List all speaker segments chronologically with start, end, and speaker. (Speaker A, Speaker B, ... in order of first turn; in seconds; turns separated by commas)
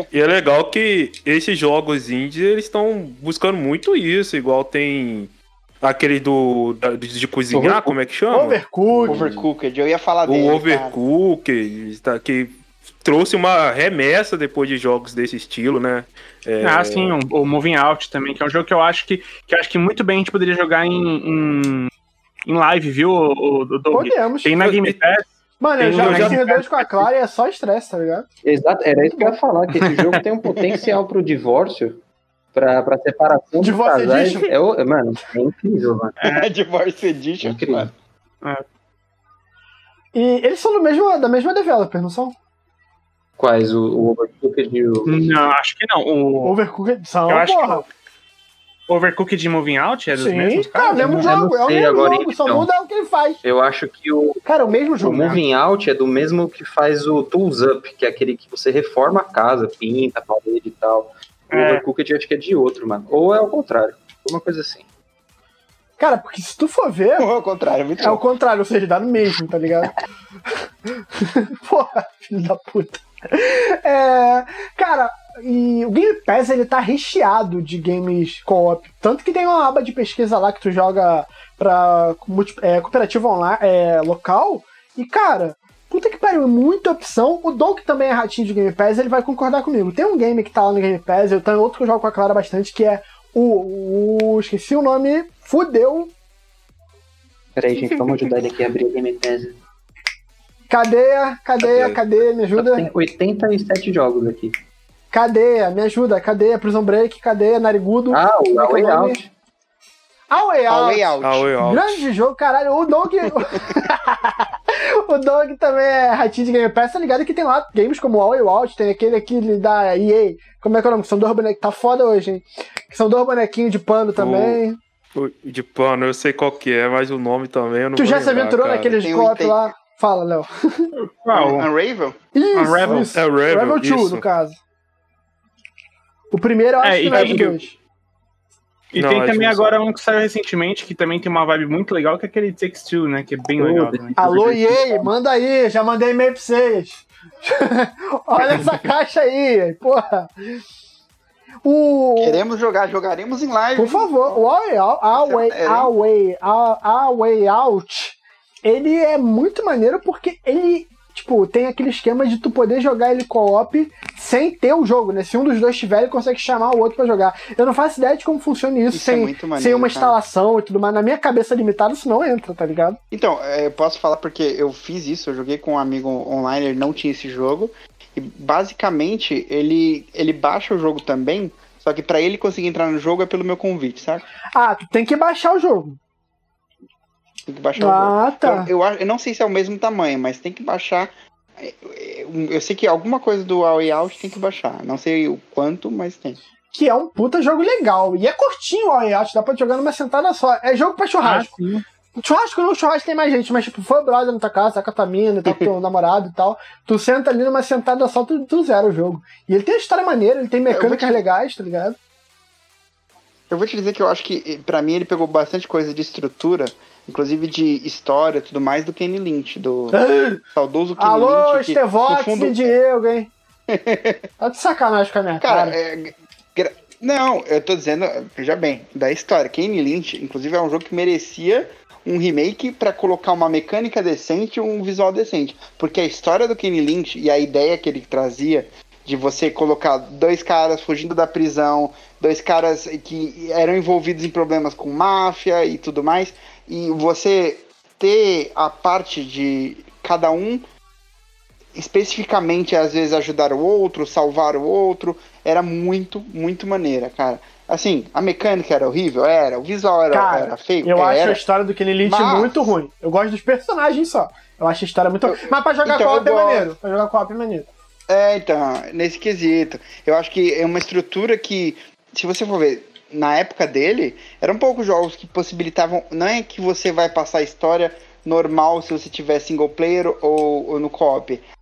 Speaker A: 0.1-9.5, Speaker B: 7.5-8.0, Speaker C: 8.3-9.3, Speaker D: 9.1-11.0, Speaker A: 10.2-17.1, Speaker E: 16.6-21.9, Speaker E: 22.4-25.3, Speaker C: 23.9-24.6, Speaker A: 24.6-25.0, Speaker C: 25.6-28.2, Speaker E: 25.8-26.5, Speaker A: 25.9-26.6, Speaker B: 28.4-32.0, Speaker C: 29.0-29.4, Speaker E: 29.8-30.1, Speaker B: 32.5-36.2, Speaker C: 33.6-34.5, Speaker E: 36.2-36.5, Speaker D: 36.3-37.9, Speaker B: 37.4-37.9, Speaker C: 40.1-42.3, Speaker B: 43.4-45.5, Speaker E: 45.0-46.5, Speaker C: 46.4-47.8, Speaker E: 47.3-47.9, Speaker E: 48.9-51.3, Speaker C: 50.1-53.4, Speaker B: 50.9-52.7, Speaker B: 53.4-54.4, Speaker C: 54.4-55.4, Speaker B: 55.0-64.8, Speaker E: 61.5-61.8, Speaker C: 66.0-67.3, Speaker D: 67.2-68.2, Speaker C: 68.0-69.9, Speaker C: 70.9-96.1, Speaker B: 97.5-99.6, Speaker C: 100.7-102.9, Speaker A: 101.6-102.0, Speaker B: 102.5-104.5, Speaker C: 105.1-109.2, Speaker B: 108.1-109.3, Speaker C: 110.3-124.8, Speaker D: 110.7-111.5, Speaker A: 111.2-112.0, Speaker A: 124.2-124.6, Speaker A: 125.1-129.0, Speaker C: 127.9-130.9, Speaker D: 129.0-129.7, Speaker E: 131.0-131.7, Speaker D: 131.3-132.2, Speaker C: 132.3-134.6, Speaker E: 132.5-133.1, Speaker A: 132.8-134.2, Speaker C: 136.3-137.7, Speaker E: 136.8-137.5, Speaker A: 137.1-137.6, Speaker E: 138.9-144.2, Speaker A: 139.0-139.8, Speaker B: 143.6-145.1, Speaker C: 144.2-150.6, Speaker C: 151.6-152.4, Speaker D: 152.2-154.5, Speaker C: 153.8-173.0, Speaker D: 155.1-155.9, Speaker D: 168.9-170.2, Speaker D: 173.1-184.2, Speaker C: 184.5-186.0, Speaker D: 187.4-196.4, Speaker C: 187.8-188.7, Speaker C: 196.7-201.5, Speaker E: 201.2-201.8, Speaker C: 202.2-212.0, Speaker D: 210.7-211.2, Speaker D: 213.5-220.0, Speaker C: 219.9-220.4, Speaker D: 220.5-222.7, Speaker C: 221.0-223.3, Speaker D: 223.7-224.2, Speaker C: 224.4-225.8, Speaker D: 225.4-250.6, Speaker D: 251.7-261.4, Speaker C: 260.1-267.7, Speaker D: 262.0-262.7, Speaker D: 265.2-266.7, Speaker D: 268.1-281.4